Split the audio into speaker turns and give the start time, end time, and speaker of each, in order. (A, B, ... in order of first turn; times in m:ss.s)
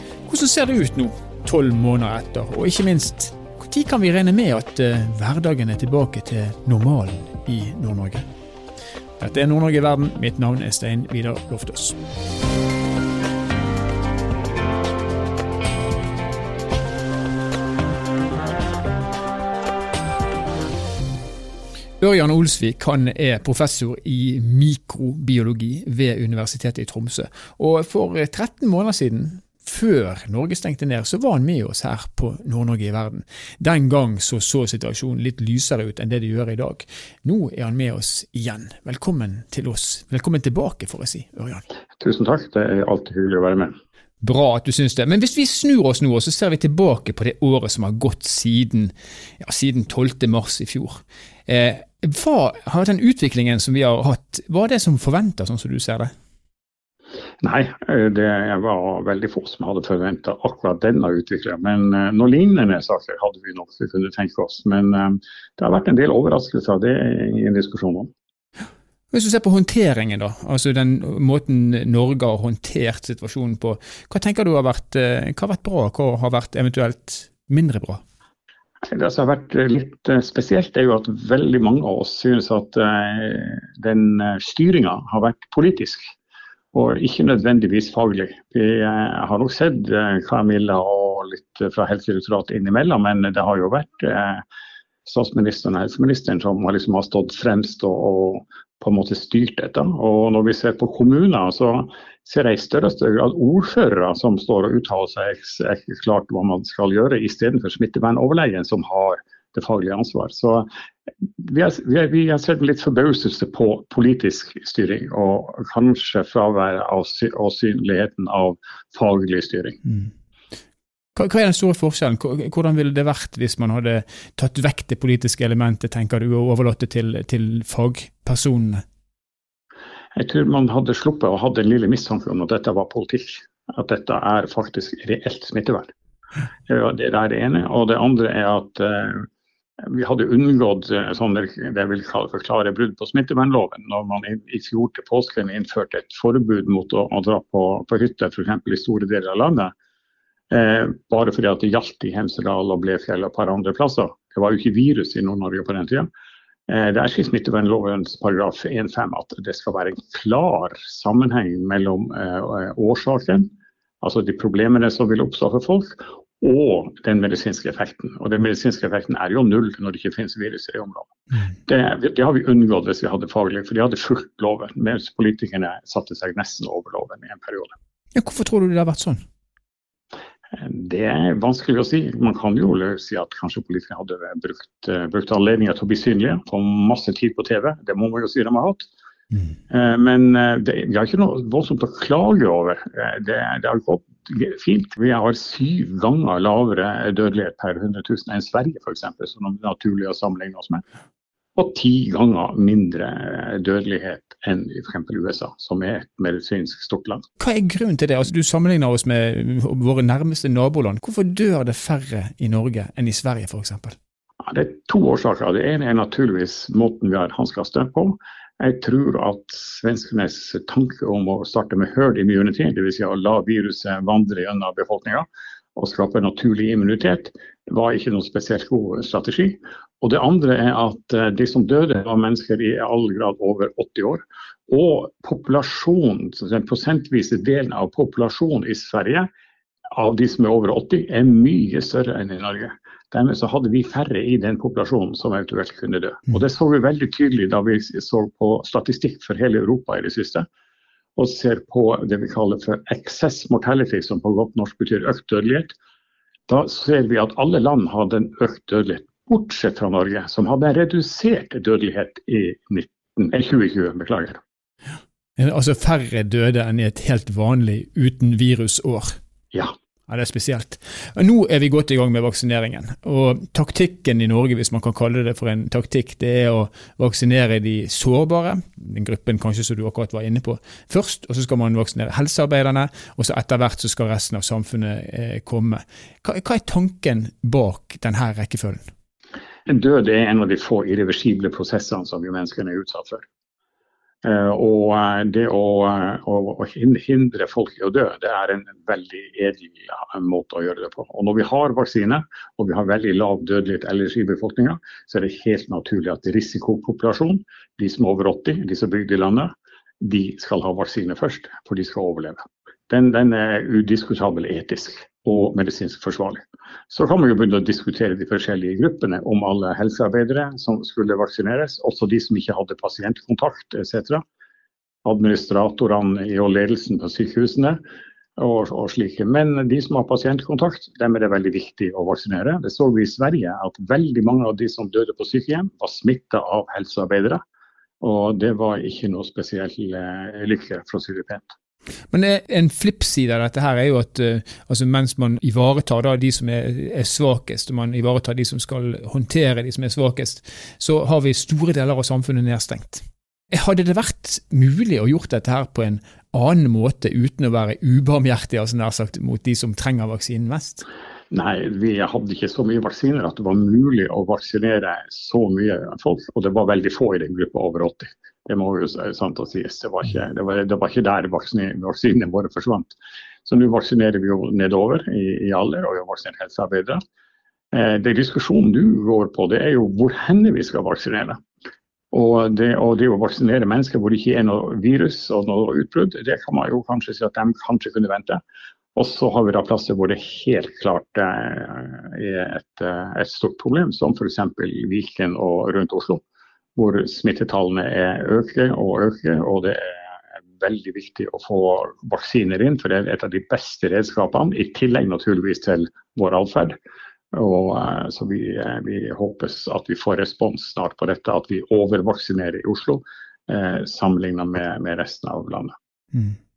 0:00.3-0:08.2 A
0:09.2-0:12.0 A
0:22.0-0:41.6 A
0:42.0-0:43.8 B
0:44.2-0:56.1 A
0:57.4-1:08.1 B
1:09.1-1:18.0 A
1:18.9-1:26.0 B
1:26.7-1:34.4 B
1:35.0-1:50.7 B
1:51.4-1:59.8 B
1:59.9-2:00.1 A
2:01.1-2:08.8 A
2:10.1-2:15.9 B
2:16.7-2:19.3 B
2:19.8-2:29.7 B
2:30.5-2:36.1 B
2:36.7-2:43.5 B
2:44.0-2:51.1 B
2:51.6-2:57.7 B
2:58.1-2:59.2 A
3:00.5-3:08.9 B
3:09.7-3:20.8 B
3:21.6-3:27.2 B
3:27.4-3:34.0 A
3:34.4-3:59.3 B
3:59.9-4:10.5 B
4:11.2-4:15.7 B
4:16.5-4:24.4 B
4:25.4-4:29.2 A
4:30.1-4:48.8 A
4:49.7-4:53.2 B
4:54.2-5:24.2 B
5:25.0-5:27.8 B
5:28.4-5:37.4 B
5:38.0-5:41.6 B
5:42.1-6:00.8 A
6:01.3-6:17.0 B
6:17.7-6:21.4 B
6:22.1-6:28.4 B
6:28.9-6:36.2 B
6:36.8-6:46.8 B
6:47.3-6:55.7 B